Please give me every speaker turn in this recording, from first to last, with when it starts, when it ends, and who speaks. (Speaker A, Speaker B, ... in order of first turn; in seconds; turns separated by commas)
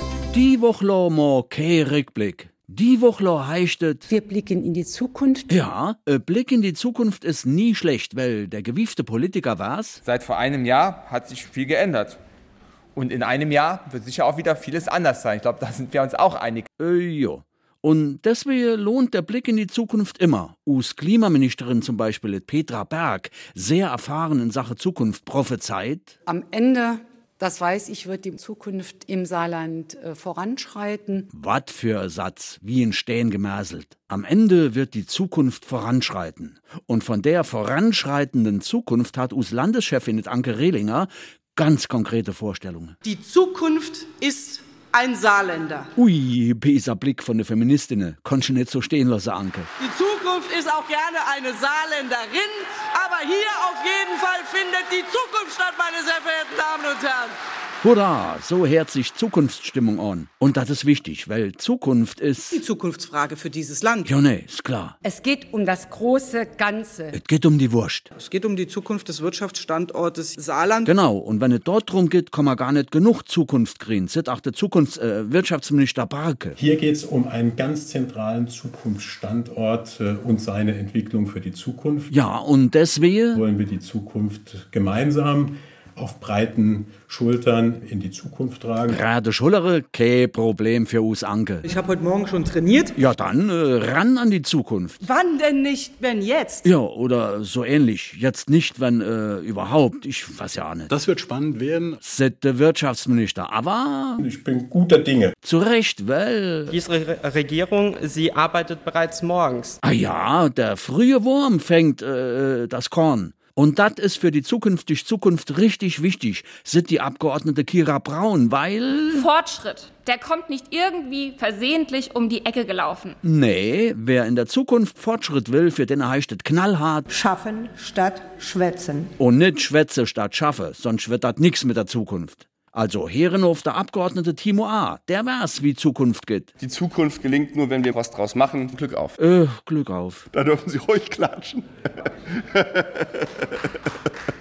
Speaker A: 0.3-4.1, Speaker B: 4.1-5.6, Speaker A: 5.5-10.0, Speaker C: 10.0-12.2, Speaker C: 12.9-16.7, Speaker A: 16.8-26.1, Speaker B: 26.3-31.3, Speaker A: 31.3-43.0, Speaker D: 43.0-45.9, Speaker A: 46.0-49.7, Speaker D: 49.8-57.3, Speaker A: 57.8-62.6, Speaker D: 62.5-64.1, Speaker A: 64.0-65.0, Speaker B: 65.0-67.2, Speaker A: 67.1-68.1, Speaker D: 68.2-70.9, Speaker A: 70.9-76.6, Speaker E: 76.6-82.1, Speaker A: 82.1-83.5, Speaker E: 83.3-89.1, Speaker A: 88.9-91.7, Speaker D: 91.6-93.0, Speaker A: 93.0-95.0, Speaker D: 95.0-96.7, Speaker A: 96.6-100.9, Speaker E: 100.9-102.0, Speaker A: 102.0-104.2, Speaker E: 104.2-105.3, Speaker A: 105.4-106.8, Speaker F: 106.7-109.8, Speaker A: 109.8-119.3, Speaker G: 119.1-123.2, Speaker A: 123.2-127.1, Speaker H: 127.1-129.1, Speaker A: 129.2-136.5, Speaker I: 136.6-139.1, Speaker A: 139.2-140.3, Speaker I: 140.3-141.7, Speaker I: 142.5-142.9